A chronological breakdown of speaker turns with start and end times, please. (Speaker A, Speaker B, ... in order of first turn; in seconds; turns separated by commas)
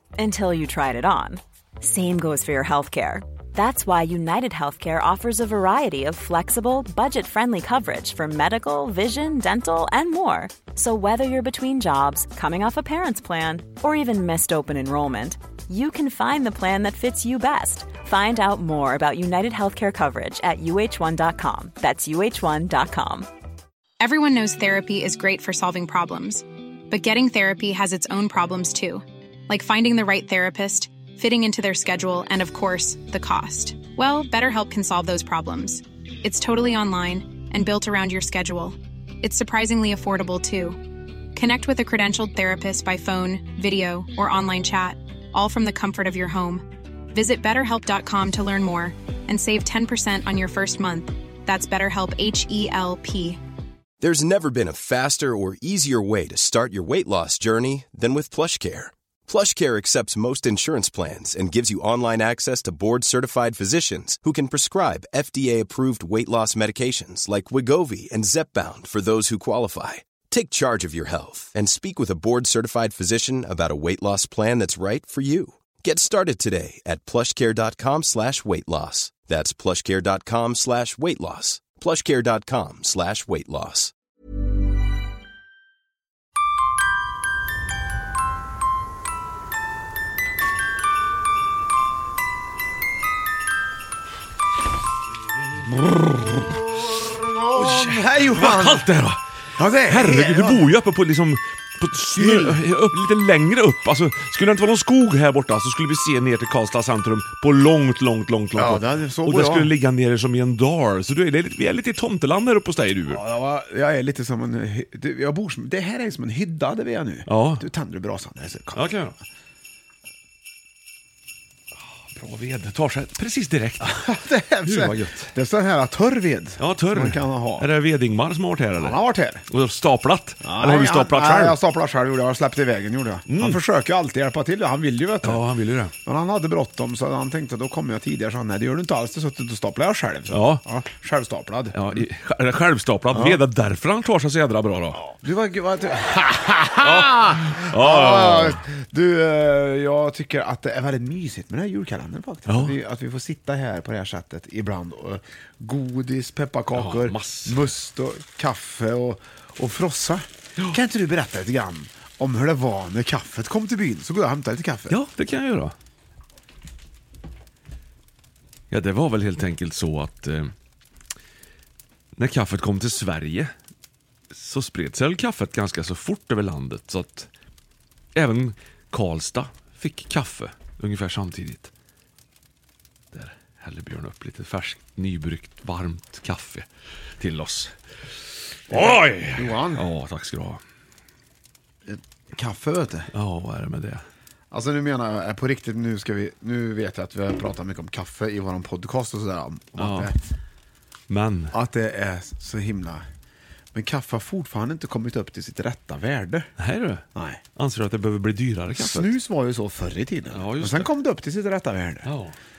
Speaker A: 0.2-23.3, Speaker B: 24.0-40.8, Speaker B: 41.4-53.4, Speaker C: 54.0-83.9, Speaker D: 95.7-98.9, Speaker E: 97.5-99.2, Speaker D: 99.6-100.7, Speaker E: 99.9-113.2, Speaker D: 102.2-102.6, Speaker D: 108.6-109.7, Speaker D: 113.1-118.8, Speaker E: 117.3-117.6, Speaker E: 118.7-119.2, Speaker E: 122.1-124.0, Speaker D: 123.8-127.7, Speaker E: 124.6-125.3, Speaker E: 126.6-131.6, Speaker D: 128.8-129.4, Speaker D: 130.4-135.4, Speaker E: 133.3-133.6, Speaker E: 135.2-135.9, Speaker D: 136.0-142.0, Speaker E: 140.3-140.6, Speaker E: 141.7-145.1, Speaker D: 143.1-143.4, Speaker D: 145.1-165.0, Speaker E: 146.8-148.6, Speaker E: 152.5-152.8, Speaker E: 156.8-157.7, Speaker E: 164.9-165.7, Speaker E: 168.7-170.5, Speaker E: 172.2-173.5, Speaker E: 174.3-177.3, Speaker E: 178.2-181.7, Speaker E: 183.1-186.7, Speaker E: 187.2-187.8, Speaker E: 188.7-190.6, Speaker D: 188.7-189.9, Speaker D: 191.9-193.1, Speaker E: 193.1-194.0, Speaker D: 194.5-200.2, Speaker E: 199.8-200.1, Speaker E: 201.1-201.5, Speaker D: 201.5-203.1, Speaker D: 203.7-206.5, Speaker E: 206.6-207.0, Speaker D: 207.2-207.4, Speaker E: 207.6-209.1, Speaker D: 208.7-212.1, Speaker E: 210.3-210.9, Speaker E: 212.1-212.3